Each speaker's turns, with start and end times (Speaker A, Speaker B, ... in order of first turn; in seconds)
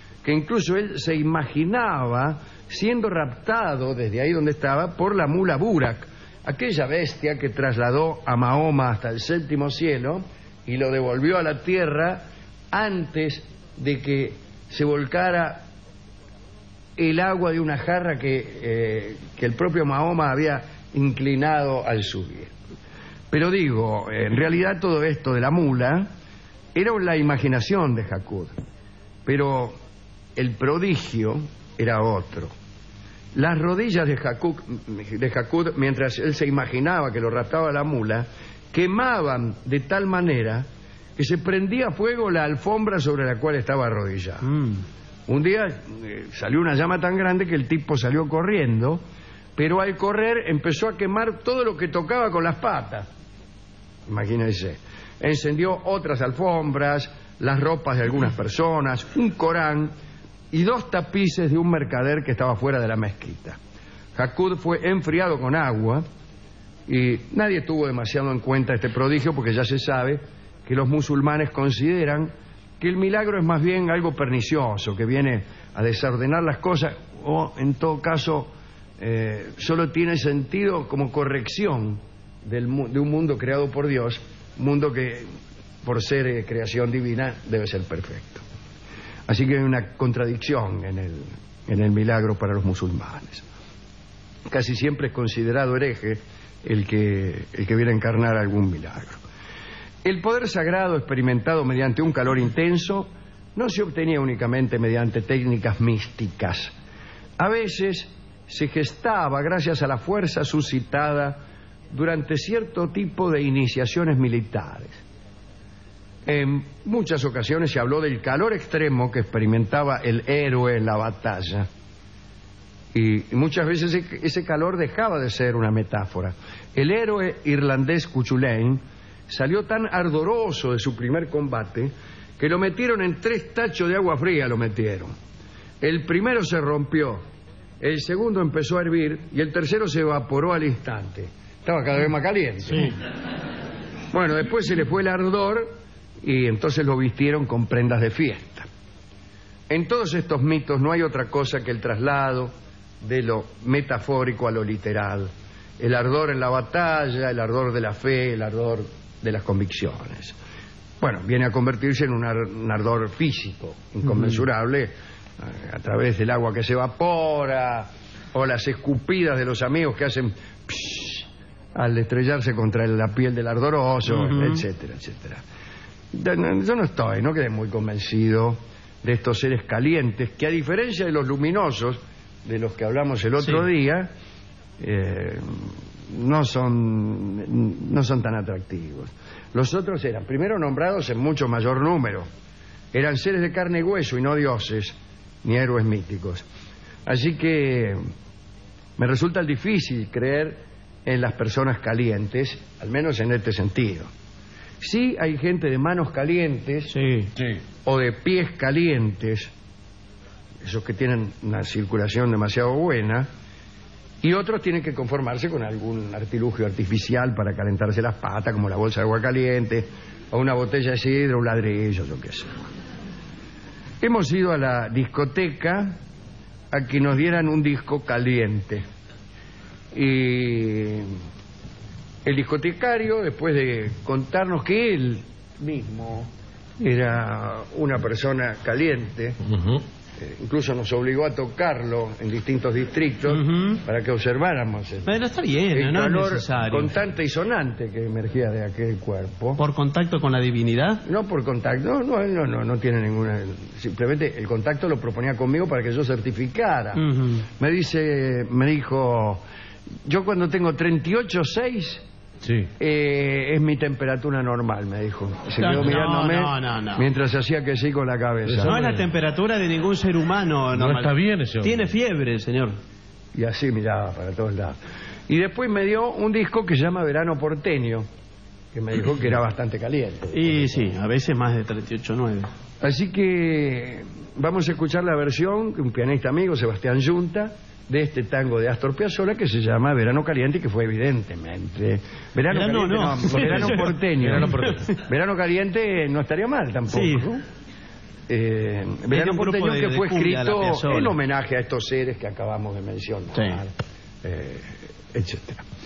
Speaker A: 0.2-15.7, 17.0-22.5, 23.3-26.1, 26.7-28.5, 29.2-29.8, 30.4-32.5, 33.3-40.6, 41.2-49.0, 49.5-53.1, 54.1-59.9, 60.5-63.6, 64.1-66.0, 66.9-85.3, 85.8-88.4, 89.3-93.4, 94.5-99.2, 100.0-106.7, 107.4-115.0, 116.2-121.7, 122.9-135.1, 135.8-137.2, 137.8-143.0, 144.1-145.7, 146.2-148.7, 149.7-160.3, 161.0-175.4, 176.1-184.1, 184.8-192.2, 192.9-196.4, 197.1-198.0, 199.0-204.1, 204.8-206.9, 207.8-209.5, 210.6-213.3, 214.2-222.7, 224.0-225.9, 226.7-228.8, 229.9-231.1, 232.2-249.6, 251.0-259.4, 260.0-262.0, 262.8-268.8, 273.3-274.8, 275.3-278.1, 278.7-281.0, 282.8-297.4, 298.3-305.6
Speaker B: 174.2-174.6, 206.9-207.3, 243.3-243.7, 245.1-246.9, 249.6-251.0, 257.0-257.4, 265.6-267.1, 268.6-272.8, 280.3-282.5, 292.5-294.9, 296.9-297.3, 299.1-301.1, 303.3-303.6
Speaker C: 262.4-262.7, 268.5-269.0, 270.7-271.9